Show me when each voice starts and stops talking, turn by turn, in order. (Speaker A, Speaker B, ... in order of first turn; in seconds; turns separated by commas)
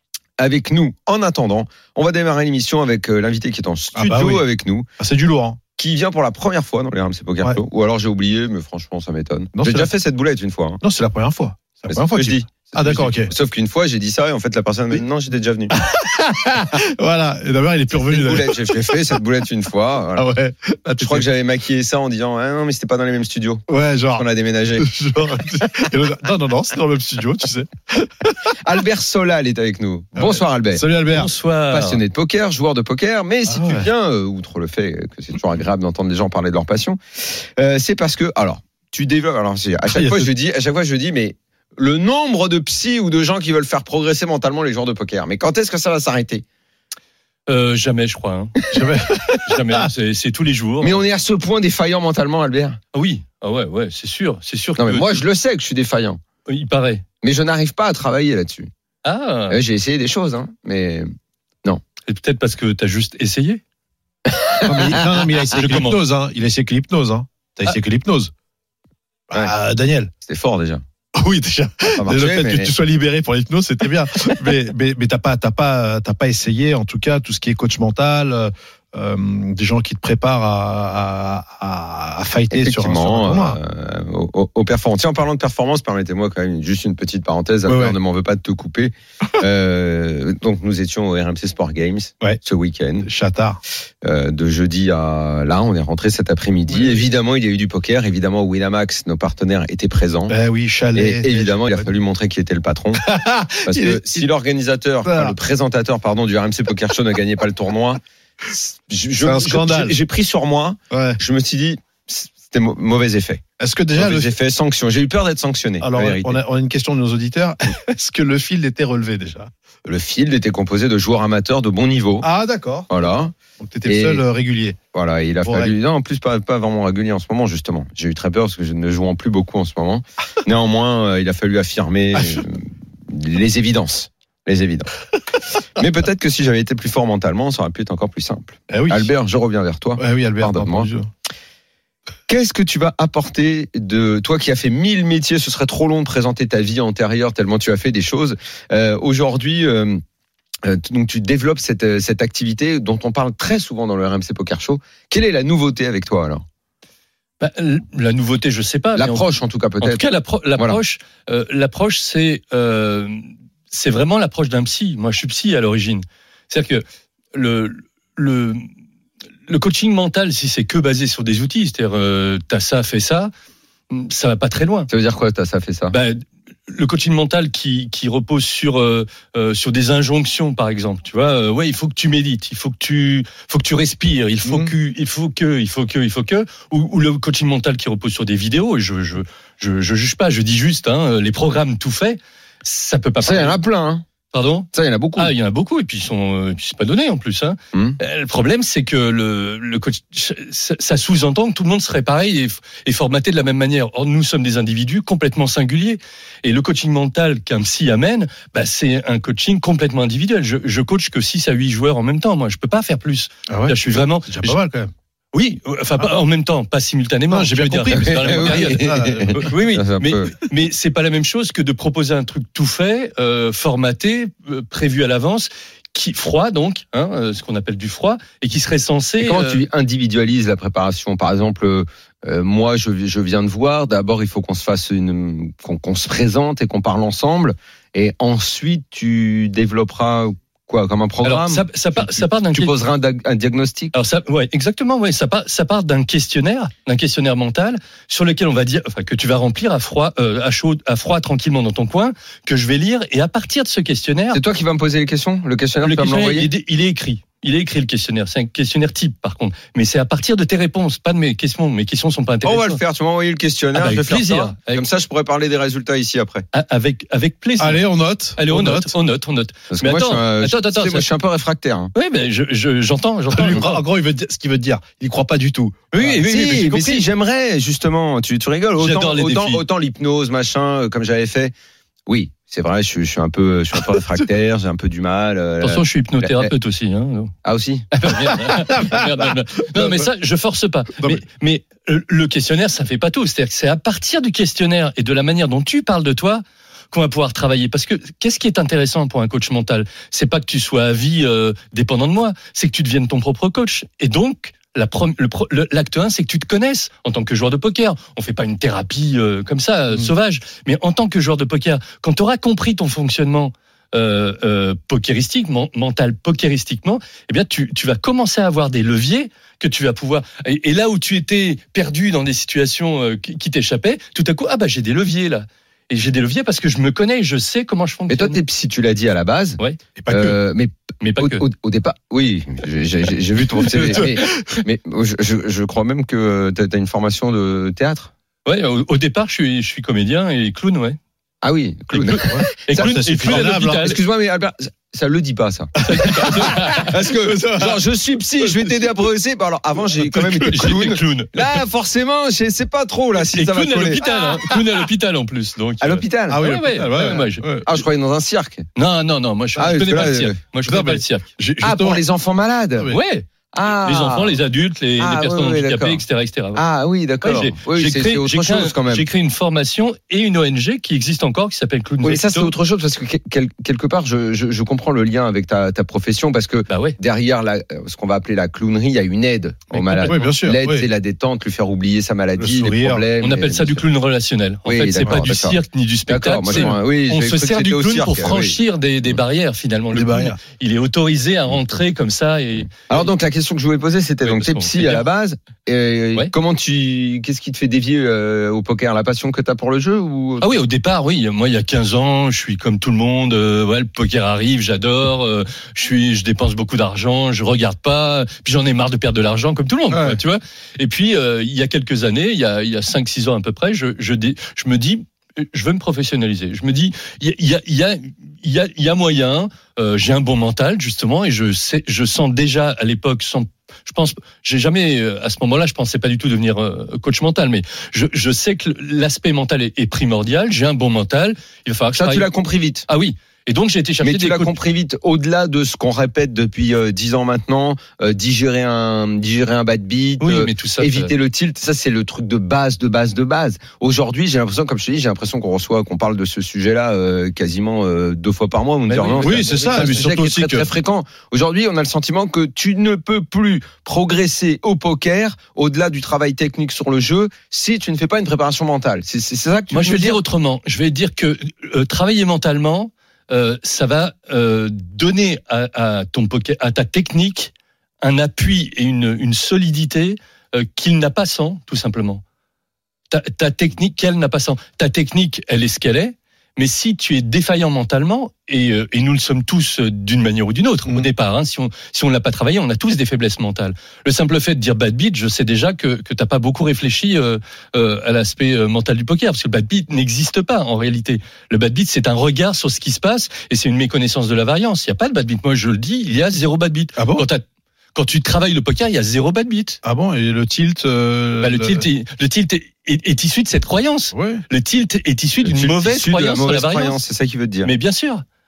Speaker A: 0.4-4.9, Speaker B: 4.0-4.5, Speaker B: 5.0-5.6, Speaker A: 5.8-10.8, Speaker B: 9.6-9.9, Speaker B: 10.8-13.3, Speaker A: 11.9-15.8, Speaker B: 15.7-19.2, Speaker A: 17.9-20.3, Speaker B: 20.1-21.3, Speaker A: 21.0-23.6, Speaker B: 23.7-24.3, Speaker A: 24.1-24.9, Speaker B: 24.8-28.5, Speaker A: 28.6-30.9, Speaker B: 30.2-31.3, Speaker C: 31.1-32.0, Speaker A: 31.7-37.0, Speaker B: 33.5-33.9, Speaker A: 37.6-46.4, Speaker B: 39.9-40.3, Speaker C: 47.5-48.6, Speaker B: 48.7-49.9, Speaker C: 49.5-51.0, Speaker A: 50.8-52.8, Speaker C: 52.9-55.2, Speaker A: 54.8-56.2, Speaker C: 56.5-57.0, Speaker A: 57.2-58.7, Speaker C: 59.0-59.6, Speaker A: 59.5-61.1, Speaker C: 62.1-63.6, Speaker A: 64.3-65.0, Speaker B: 64.6-68.3, Speaker C: 65.5-66.0, Speaker B: 69.3-70.1, Speaker A: 70.3-70.8, Speaker B: 71.2-83.6, Speaker A: 71.9-72.7, Speaker A: 82.5-93.1, Speaker B: 87.7-88.0, Speaker B: 93.0-93.6, Speaker A: 94.0-100.4, Speaker B: 96.7-97.0, Speaker B: 100.3-101.9, Speaker A: 100.9-103.1, Speaker B: 103.0-104.3, Speaker A: 103.6-113.4, Speaker B: 105.0-105.4, Speaker B: 109.2-110.0, Speaker B: 110.9-111.2, Speaker B: 113.6-114.3, Speaker A: 114.0-116.4, Speaker B: 115.8-119.5, Speaker A: 119.9-122.3, Speaker B: 122.2-122.9, Speaker A: 122.9-123.3, Speaker B: 123.6-124.8, Speaker A: 123.9-124.2, Speaker A: 124.9-134.9, Speaker B: 125.4-125.7, Speaker A: 135.6-140.9, Speaker B: 138.7-139.1, Speaker B: 140.0-141.1, Speaker A: 142.3-150.0, Speaker A: 150.6-156.4, Speaker C: 157.4-159.2, Speaker A: 159.0-160.1, Speaker C: 159.8-168.7, Speaker C: 169.5-173.3, Speaker C: 173.9-174.9, Speaker A: 174.9-176.0, Speaker C: 175.9-193.6, Speaker B: 184.4-184.7, Speaker A: 193.2-194.0, Speaker C: 194.3-214.6, Speaker A: 194.7-195.3, Speaker A: 197.7-198.0, Speaker B: 213.5-214.9, Speaker C: 215.3-218.8, Speaker B: 217.3-219.5, Speaker A: 217.9-220.3, Speaker C: 219.3-229.7, Speaker A: 229.2-243.9, Speaker C: 241.2-242.7, Speaker C: 243.9-254.4, Speaker A: 254.3-256.5, Speaker C: 255.8-262.8, Speaker A: 262.4-266.5, Speaker C: 263.7-264.9, Speaker C: 266.5-271.1, Speaker B: 267.6-268.9, Speaker A: 269.7-271.9, Speaker C: 271.9-273.8, Speaker B: 273.3-276.3, Speaker C: 275.9-277.0, Speaker A: 276.2-281.5, Speaker C: 278.8-279.6, Speaker A: 282.1-286.5, Speaker C: 285.6-287.3, Speaker A: 287.4-287.9, Speaker C: 287.9-328.4, Speaker B: 288.3-289.1, Speaker B: 289.8-290.1, Speaker A: 328.1-338.1, Speaker B: 330.0-330.4, Speaker C: 331.0-331.4, Speaker B: 333.8-334.6, Speaker C: 338.4-341.0, Speaker A: 341.4-354.1, Speaker C: 341.9-344.0, Speaker B: 342.2-343.9, Speaker C: 345.8-346.9, Speaker B: 345.9-347.8, Speaker B: 348.4-348.9, Speaker B: 350.0-350.7, Speaker C: 350.5-351.6, Speaker C: 353.2-357.5, Speaker B: 354.0-354.6, Speaker A: 355.8-358.7, Speaker B: 356.3-357.7, Speaker C: 358.8-361.9, Speaker A: 359.6-360.4, Speaker B: 360.6-361.0, Speaker A: 361.6-362.9, Speaker B: 361.6-362.0, Speaker C: 362.9-366.6, Speaker A: 363.5-364.4, Speaker A: 365.0-366.0, Speaker A: 366.6-369.1, Speaker C: 367.2-372.5, Speaker A: 372.0-383.9, Speaker C: 376.7-377.0, Speaker C: 379.7-380.4, Speaker B: 380.0-380.9, Speaker B: 382.4-383.1, Speaker C: 383.2-393.1, Speaker A: 384.6-389.2, Speaker B: 386.5-386.8, Speaker B: 389.9-390.4, Speaker A: 392.8-400.5, Speaker C: 394.2-395.1, Speaker C: 400.4-432.3, Speaker B: 409.9-410.2, Speaker A: 431.9-432.9, Speaker C: 432.9-434.5, Speaker A: 434.0-460.2, Speaker C: 440.2-441.1, Speaker C: 448.9-450.0, Speaker B: 449.2-450.7, Speaker C: 459.7-472.2, Speaker C: 473.1-499.8, Speaker B: 497.0-497.2, Speaker B: 499.8-501.9, Speaker C: 501.4-507.0, Speaker B: 504.1-504.4, Speaker A: 505.4-507.7, Speaker C: 507.6-508.2